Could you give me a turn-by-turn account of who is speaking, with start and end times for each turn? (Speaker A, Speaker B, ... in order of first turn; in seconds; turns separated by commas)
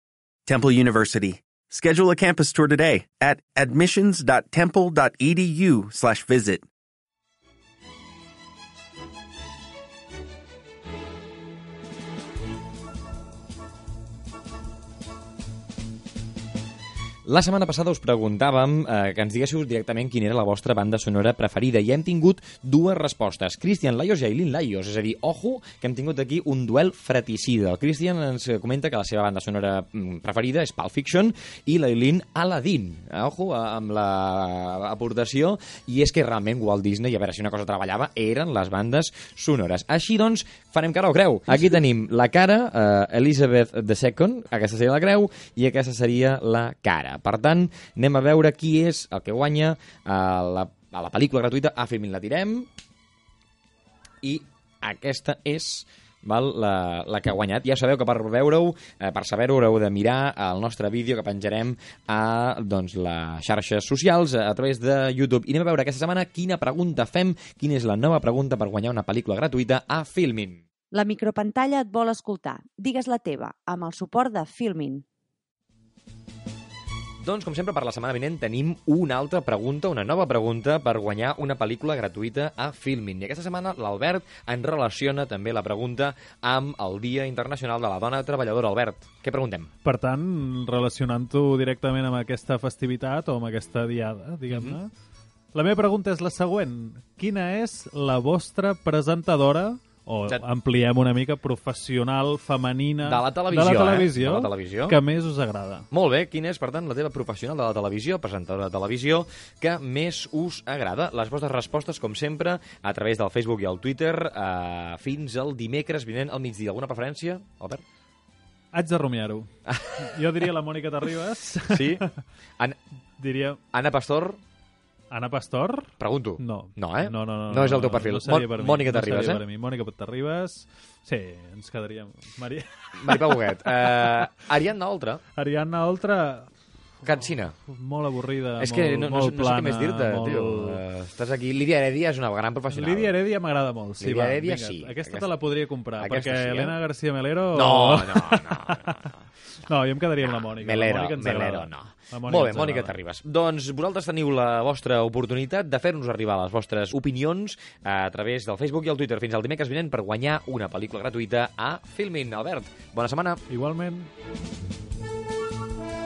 Speaker A: 0.5-6.7, Speaker B: 17.3-52.7, Speaker B: 54.2-70.6, Speaker C: 70.9-75.0, Speaker B: 77.2-89.7, Speaker D: 89.8-94.9, Speaker D: 95.5-105.9, Speaker B: 103.0-104.9, Speaker B: 105.9-117.8, Speaker D: 118.7-122.1, Speaker B: 121.8-122.0, Speaker D: 123.2-123.6, Speaker B: 123.7-124.4, Speaker D: 125.1-134.3, Speaker B: 126.0-129.4, Speaker B: 133.0-135.2, Speaker D: 135.3-136.5, Speaker D: 137.1-140.8, Speaker B: 137.1-137.5, Speaker B: 138.6-143.1, Speaker D: 142.7-153.0, Speaker B: 144.0-145.3, Speaker B: 146.0-146.8, Speaker B: 147.6-149.1, Speaker B: 150.4-163.4, Speaker D: 163.5-164.1